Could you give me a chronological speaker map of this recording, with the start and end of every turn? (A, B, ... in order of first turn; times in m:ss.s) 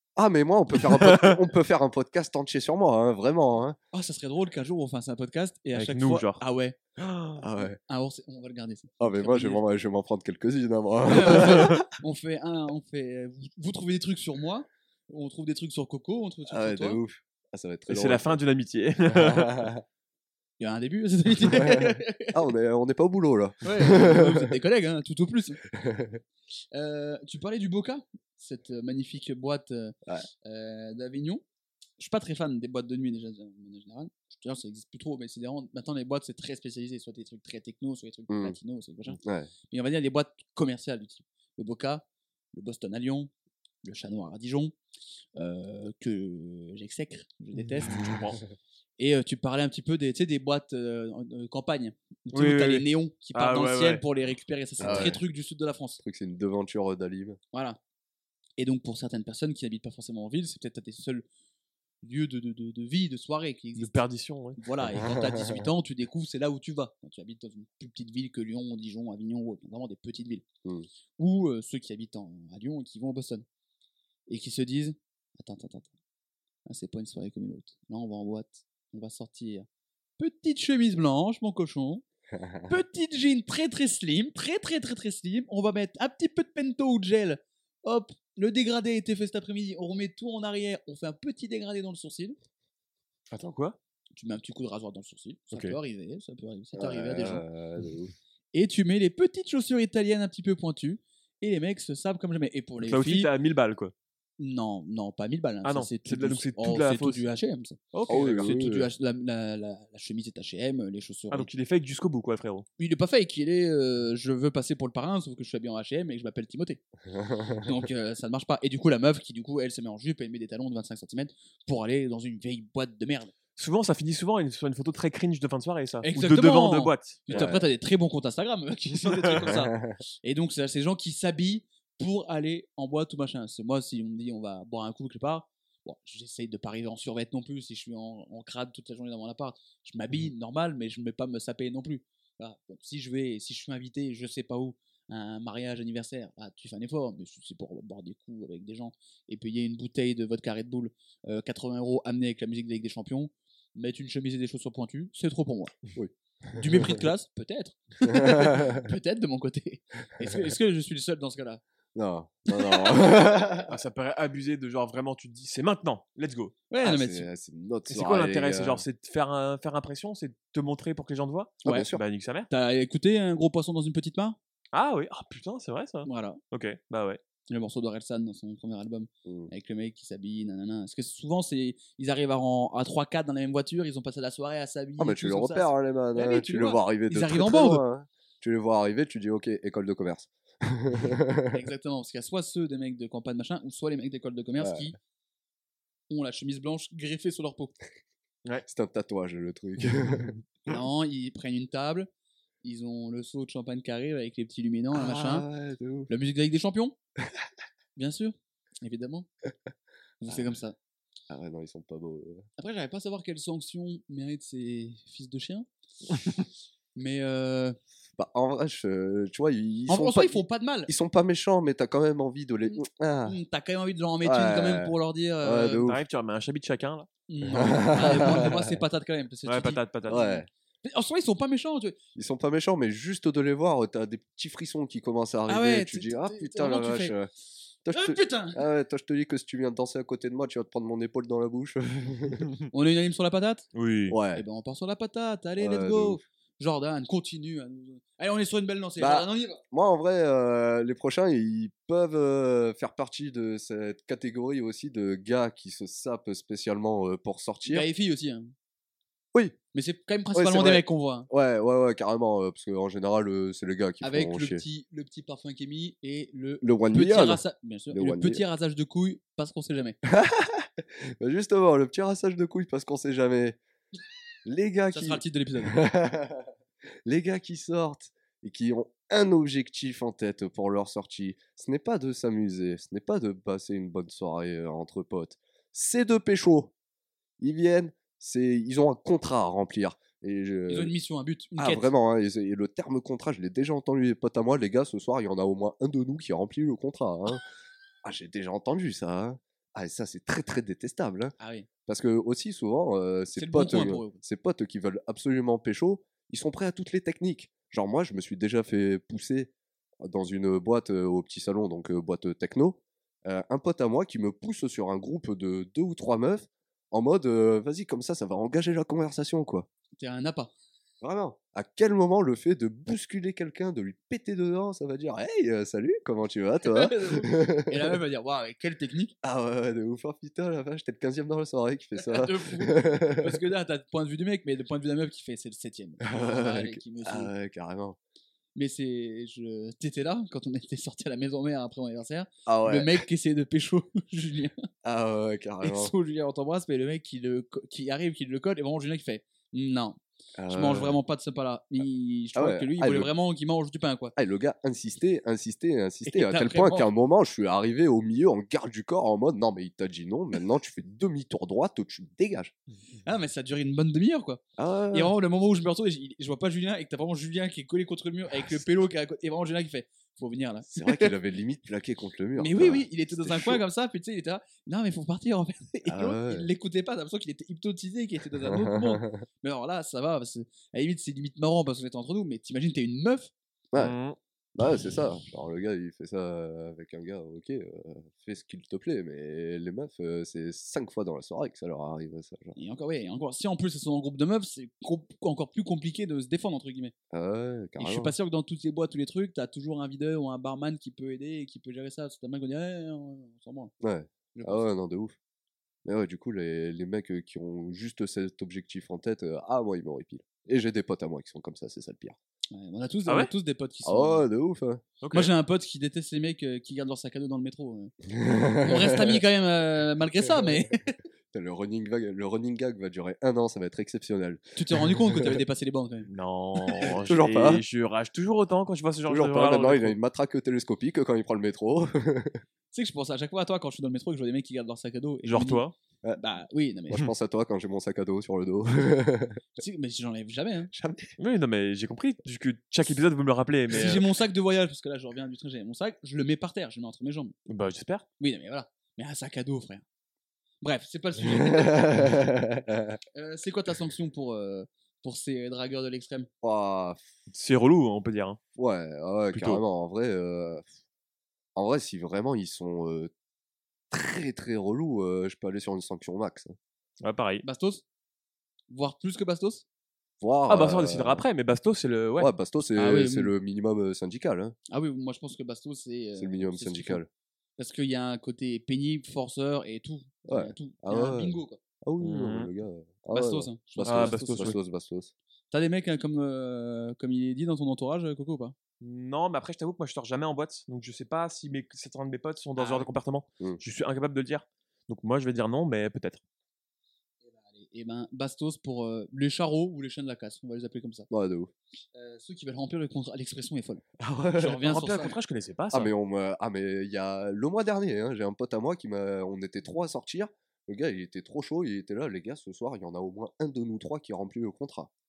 0:00.2-0:03.8 A
0:00.8-0:01.4 B
0:03.9-0:06.8 C
0:05.8-0:06.4 B
0:07.0-0:07.4 B
0:07.4-0:07.8 A
0:07.9-0:09.6 C
0:09.0-0:11.9 A
0:11.0-0:17.0 C
0:16.5-0:18.4 A
0:17.9-0:19.7 B
0:19.1-0:19.8 A
0:20.6-0:22.4 C
0:22.3-0:24.5 A
0:23.6-0:25.6 C
0:25.7-0:26.2 A
0:26.7-0:31.4 C
0:32.0-0:43.3 C
0:38.3-0:38.6 A
0:39.2-0:39.5 A
0:43.8-0:44.7 C
0:45.4-0:48.4 C
0:47.8-0:48.4 B
0:49.0-0:56.0 C
0:52.3-0:54.0 B
0:54.8-0:55.2 A
0:54.8-0:55.1 B
0:56.0-0:57.4 A
0:57.5-0:57.8 C
0:58.6-1:01.2 C
1:02.0-1:04.0 C
1:03.8-1:04.6 B
1:04.6-1:10.4 C
1:04.8-1:05.7 A
1:11.2-1:13.4 C
1:14.3-1:15.9 C
1:16.6-1:19.7 C
1:20.2-1:22.0 C
1:22.4-1:22.7 A
1:22.7-1:32.4 C
1:33.3-1:33.8 B
1:34.1-1:37.4 C
1:35.5-1:35.8 B
1:36.7-1:38.1 A
1:38.5-1:43.3 C
1:42.8-1:43.9 B
1:44.4-1:51.5 C
1:45.6-1:47.2 B
1:47.9-1:48.5 B
1:48.1-1:48.9 A
1:51.3-1:52.6 B
1:52.8-1:56.8 C
1:57.1-1:57.7 A
1:57.6-2:03.3 C
2:03.6-2:07.5 B
2:06.0-2:35.7 C
2:07.3-2:07.7 A
2:09.0-2:09.4 B
2:09.5-2:10.0 A
2:35.9-2:37.0 A
2:36.5-2:41.6 C
2:38.0-2:38.8 A
2:41.9-2:43.8 A
2:42.5-2:43.0 C
2:43.7-2:46.5 B
2:46.7-2:47.3 C
2:46.8-2:48.8 A
2:47.9-2:52.5 B
2:51.6-2:52.0 A
2:52.5-2:54.4 C
2:54.7-2:57.2 B
2:56.0-2:56.4 C
2:57.5-3:07.8 C
2:59.2-2:59.5 A
3:05.0-3:11.6 A
3:11.5-3:15.0 C
3:14.6-3:14.9 A
3:16.1-3:17.7 C
3:18.6-3:20.8 A
3:20.7-3:22.1 C
3:22.6-3:25.5 C
3:24.9-3:26.1 A
3:26.1-3:27.0 C
3:28.0-3:29.3 C
3:30.2-3:30.8 C
3:30.3-3:30.5 A
3:31.3-3:32.4 A
3:32.6-3:35.7 C
3:37.0-3:37.8 C
3:38.2-3:43.4 A
3:39.9-3:40.9 C
3:43.2-3:45.9 C
3:44.2-3:46.0 A
3:45.8-3:47.1 B
3:47.3-3:49.8 C
3:47.5-3:48.7 A
3:49.4-3:50.4 B
3:50.1-3:50.5 A
3:50.8-3:52.0 C
3:52.1-3:57.3 A
3:55.5-3:57.1 C
3:57.8-4:02.5 A
3:57.9-3:58.6 C
4:02.7-4:03.7 C
4:03.7-4:04.2 B
4:04.1-4:04.4 A
4:04.3-4:09.6 C
4:05.6-4:06.2 A
4:09.0-4:17.9 A
4:17.6-4:18.5 C
4:19.7-4:21.3 C
4:20.3-4:24.6 A
4:24.0-4:30.0 C
4:26.6-4:28.4 A
4:30.0-4:33.6 A
4:34.4-4:36.5 A
4:34.9-4:35.8 C
4:37.0-4:46.7 A
4:47.4-4:50.9 A
4:50.7-4:51.9 C
4:51.6-4:57.4 A
4:58.0-5:01.3 A
5:01.4-5:01.7 C
5:01.8-5:09.5 A
5:03.4-5:04.2 C
5:10.0-5:19.7 A
5:20.0-5:20.5 C
5:21.0-5:28.0 A
5:26.6-5:29.1 C
5:29.2-5:33.4 A
5:32.0-5:37.3 C
5:36.0-5:38.0 A
5:38.5-5:44.6 C
5:42.4-5:43.0 A
5:44.8-5:45.9 A
5:45.6-5:54.1 C
5:50.4-5:51.0 A
5:52.3-5:53.1 A
5:54.2-6:02.5 A
5:56.0-5:56.9 C
6:03.0-6:11.1 C
6:04.6-6:05.1 A
6:10.7-6:13.6 A
6:12.4-6:23.3 C
6:15.8-6:16.5 A
6:18.4-6:19.2 A
6:23.7-6:24.2 B
6:24.6-6:32.6 A
6:32.6-6:36.9 C
6:37.1-6:38.1 A
6:37.8-6:43.7 C
6:43.8-6:45.2 A
6:44.3-6:44.6 C
6:45.8-6:52.2 A
6:52.5-6:54.3 C
6:53.8-6:54.8 A
6:55.0-6:55.3 B
6:55.1-6:57.9 C
6:58.1-6:59.2 A
6:58.6-7:00.9 C
7:01.3-7:05.4 A
7:04.6-7:06.1 C
7:06.1-7:10.0 B
7:06.8-7:07.6 A
7:09.1-7:12.4 A
7:12.7-7:15.6 C
7:15.2-7:15.7 B
7:16.2-7:17.0 C
7:16.9-7:19.4 A
7:19.6-7:20.7 C
7:20.7-7:21.2 A
7:21.2-7:24.0 B
7:23.7-7:27.3 C
7:27.5-7:28.0 B
7:28.2-7:29.8 C
7:30.6-7:32.1 C
7:31.2-7:33.0 A
7:33.1-7:36.3 C
7:36.4-7:37.0 A
7:37.3-7:38.4 B
7:38.6-7:40.7 A
7:39.3-7:39.6 B
7:41.6-7:43.1 A
7:43.9-7:46.6 A
7:47.0-7:47.4 B
7:47.4-7:47.8 C
7:48.7-7:49.6 C
7:50.2-7:51.2 A
7:50.5-7:52.3 B
7:52.2-7:54.5 A
7:52.7-7:53.3 C
7:54.7-7:57.0 C
7:56.2-7:57.1 A
7:57.6-8:01.6 C
8:00.2-8:05.1 A
8:02.0-8:02.5 B
8:03.1-8:04.5 C
8:03.8-8:04.6 B
8:05.5-8:08.5 C
8:08.8-8:16.2 B
8:12.6-8:12.9 C
8:17.2-8:21.1 C
8:21.1-8:21.5 A
8:21.9-8:23.8 C
8:24.0-8:24.9 A
8:24.4-8:25.1 C
8:24.6-8:25.9 B
8:25.7-8:34.9 A